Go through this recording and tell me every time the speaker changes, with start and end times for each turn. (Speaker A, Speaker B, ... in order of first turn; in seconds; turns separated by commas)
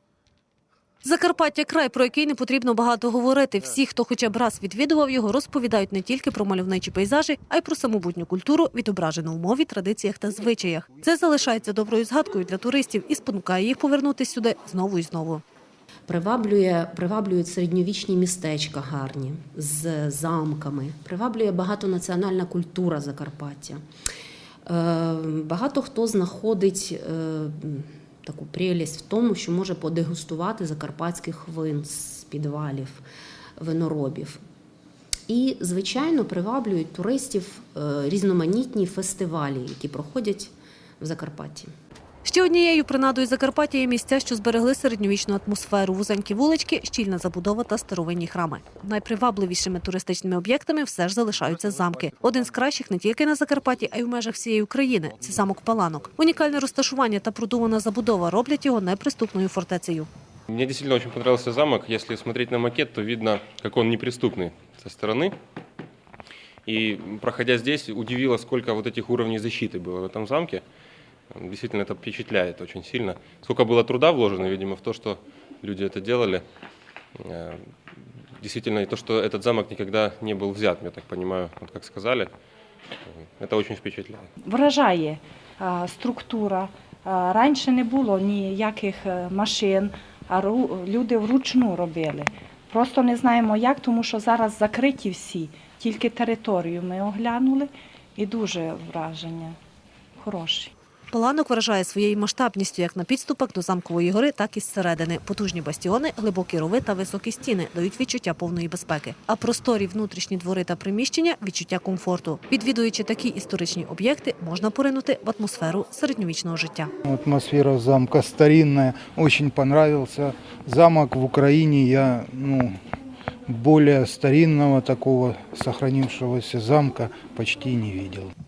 Speaker A: 1.0-15.4, Speaker B: 16.1-23.8, Speaker B: 24.6-33.0, Speaker B: 33.6-34.4, Speaker B: 35.3-41.7, Speaker A: 42.2-60.1, Speaker C: 60.5-65.4, Speaker C: 66.7-70.6, Speaker C: 71.3-76.4, Speaker C: 77.1-82.3, Speaker C: 83.0-84.3, Speaker D: 84.4-99.6, Speaker D: 100.2-100.7, Speaker A: 101.1-116.9, Speaker E: 117.0-122.8, Speaker E: 123.5-128.3